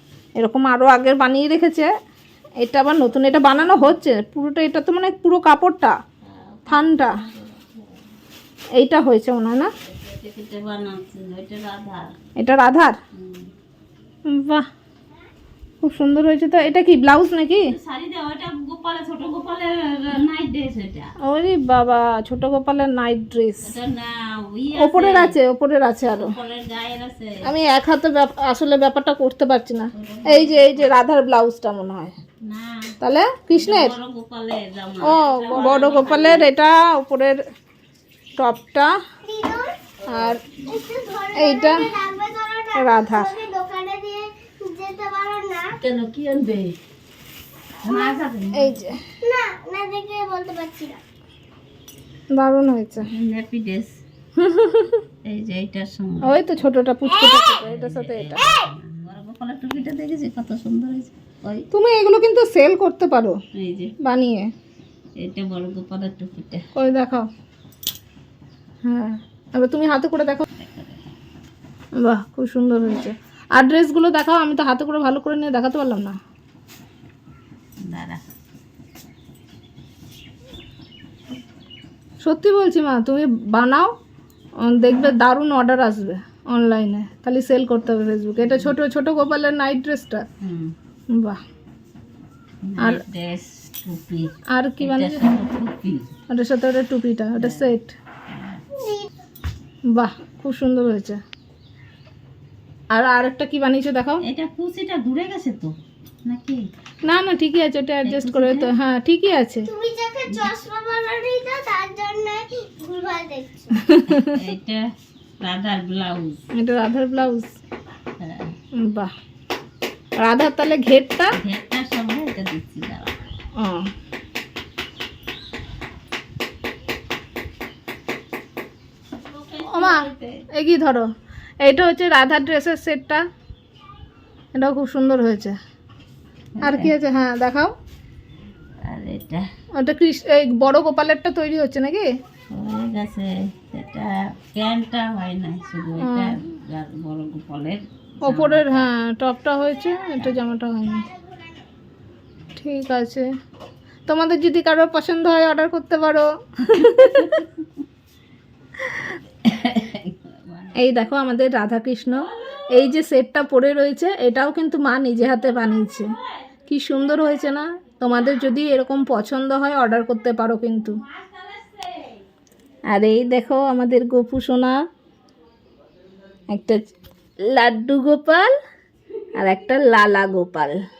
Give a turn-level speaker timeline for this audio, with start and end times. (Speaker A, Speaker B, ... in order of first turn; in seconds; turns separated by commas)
Speaker A: 0.4-1.9, Speaker A: 2.6-6.0, Speaker B: 3.6-3.9, Speaker B: 6.2-8.0, Speaker A: 6.7-7.1, Speaker A: 8.8-9.7, Speaker B: 9.8-12.2, Speaker A: 12.4-13.0, Speaker B: 13.1-13.5, Speaker A: 14.3-14.6, Speaker A: 15.8-17.7, Speaker B: 17.6-21.1, Speaker A: 21.2-23.7, Speaker B: 23.6-25.4, Speaker A: 24.8-26.3, Speaker B: 26.1-27.5, Speaker A: 27.4-32.1, Speaker B: 29.9-30.9, Speaker B: 32.4-32.9, Speaker A: 33.0-33.9, Speaker B: 33.5-36.5, Speaker A: 35.0-37.4, Speaker A: 38.4-38.9, Speaker C: 39.2-39.8, Speaker A: 40.1-40.4, Speaker C: 40.6-45.8, Speaker A: 41.3-41.9, Speaker A: 42.8-43.3, Speaker B: 45.8-46.8, Speaker B: 47.8-48.8, Speaker C: 47.9-48.2, Speaker A: 48.5-49.0, Speaker C: 49.2-51.0, Speaker A: 52.3-53.1, Speaker B: 53.0-54.0, Speaker A: 54.4-55.0, Speaker B: 55.2-56.4, Speaker A: 56.2-58.5, Speaker C: 57.2-57.6, Speaker B: 57.6-61.7, Speaker C: 58.4-58.6, Speaker A: 61.7-63.4, Speaker B: 63.5-63.9, Speaker A: 64.0-64.5, Speaker B: 65.2-66.7, Speaker A: 66.7-67.3, Speaker A: 68.8-70.5, Speaker B: 70.5-71.0, Speaker A: 72.0-76.2, Speaker B: 77.8-78.2, Speaker A: 82.2-83.9, Speaker A: 84.6-90.2, Speaker B: 88.4-88.7, Speaker B: 90.4-90.7, Speaker A: 91.1-91.4, Speaker B: 92.6-96.1, Speaker A: 94.5-95.4, Speaker A: 96.3-98.0, Speaker B: 97.4-97.7, Speaker B: 98.3-98.6, Speaker C: 98.8-99.1, Speaker A: 99.9-101.2, Speaker A: 102.9-104.2, Speaker B: 104.2-106.7, Speaker A: 107.0-109.7, Speaker B: 108.0-108.7, Speaker C: 109.7-113.8, Speaker B: 110.3-110.5, Speaker A: 113.8-114.3, Speaker B: 114.0-114.8, Speaker B: 115.4-116.4, Speaker A: 116.5-117.5, Speaker B: 118.2-118.5, Speaker A: 118.8-119.1, Speaker A: 120.2-121.4, Speaker B: 121.3-123.2, Speaker A: 123.6-123.9, Speaker B: 129.2-130.4, Speaker A: 129.7-131.1, Speaker A: 131.6-133.2, Speaker A: 134.5-135.6, Speaker B: 136.5-136.9, Speaker A: 136.6-137.7, Speaker B: 138.8-139.4, Speaker A: 139.8-142.1, Speaker B: 142.5-148.9, Speaker A: 146.0-146.4, Speaker A: 148.2-151.1, Speaker C: 150.8-151.6, Speaker A: 152.6-153.2, Speaker A: 154.1-157.3, Speaker B: 156.7-157.7, Speaker B: 158.8-160.8, Speaker A: 160.8-166.1, Speaker A: 166.7-171.0, Speaker B: 171.2-172.0, Speaker A: 172.9-174.8, Speaker A: 176.5-176.8, Speaker A: 177.5-178.5, Speaker A: 179.4-180.8